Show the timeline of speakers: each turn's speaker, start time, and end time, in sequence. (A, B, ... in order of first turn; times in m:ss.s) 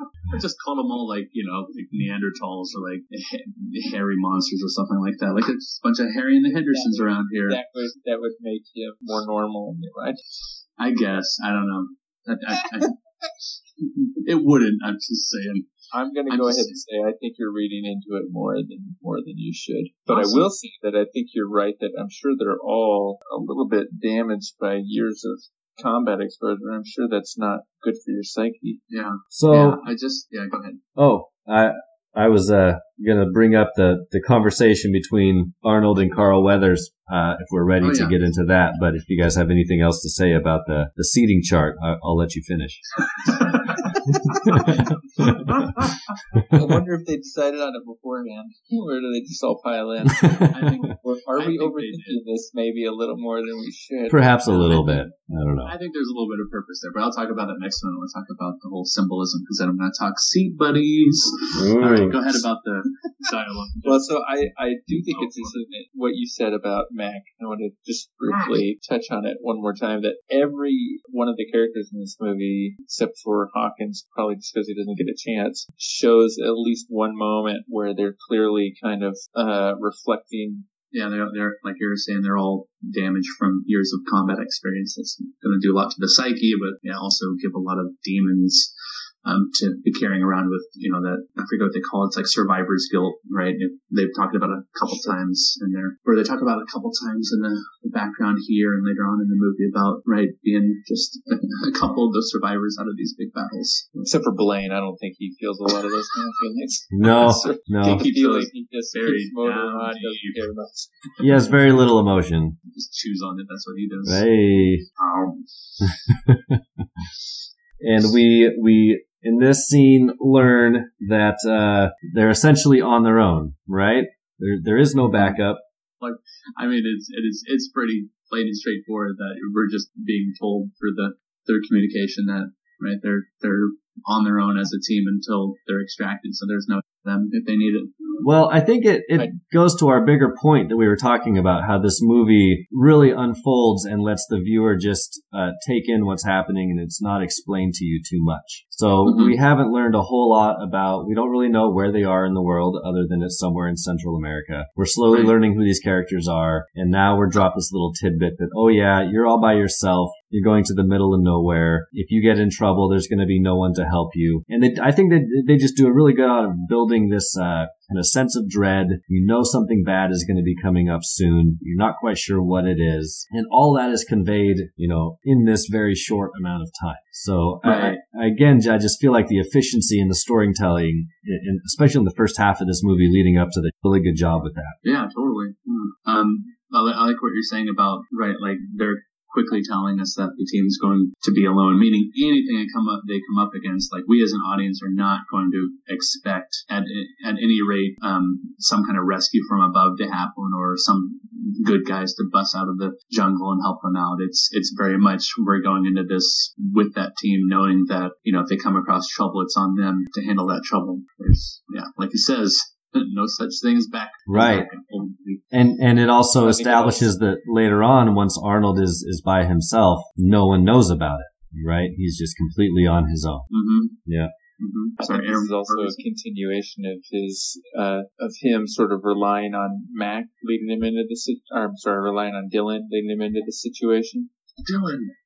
0:00.3-0:07.6 A
0:06.5-0:10.2 B
0:10.8-0:12.9 A
0:13.8-0:15.7 A
0:15.9-0:28.8 B
0:16.3-0:16.8 A
0:20.1-0:20.5 A
0:28.9-0:30.8 A
0:29.3-0:29.8 C
0:31.0-0:42.9 C
0:37.8-0:38.2 A
0:43.3-0:43.6 A
0:44.3-0:45.2 B
0:44.6-0:45.8 A
0:45.2-0:45.5 C
0:46.3-0:46.6 C
0:46.5-0:54.8 B
0:50.1-0:50.7 C
0:50.4-0:52.2 A
0:54.1-0:55.7 C
0:54.5-0:55.1 A
0:55.6-1:04.2 A
1:01.6-1:02.4 C
1:03.8-1:20.6 B
1:05.1-1:05.6 A
1:08.3-1:08.6 A
1:20.9-1:28.7 A
1:29.2-1:44.1 A
1:34.9-1:35.2 B
1:44.0-1:51.1 B
1:46.9-1:48.0 C
1:47.8-1:50.4 A
1:51.2-1:52.6 C
1:52.7-1:54.2 A
1:54.1-1:54.8 C
1:55.0-1:55.5 A
1:55.8-1:56.8 C
1:57.8-2:05.6 C
2:06.0-2:18.2 A
2:18.2-3:04.8 C
2:29.0-2:29.4 A
2:35.1-2:35.3 A
2:57.6-2:58.0 A
3:04.8-3:35.4 A
3:34.3-3:34.7 C
3:35.5-3:43.5 C
3:36.4-3:37.1 B
3:43.5-3:44.0 A
3:44.1-3:44.3 C
3:44.6-3:46.0 A
3:45.0-3:54.3 B
3:54.6-3:55.1 A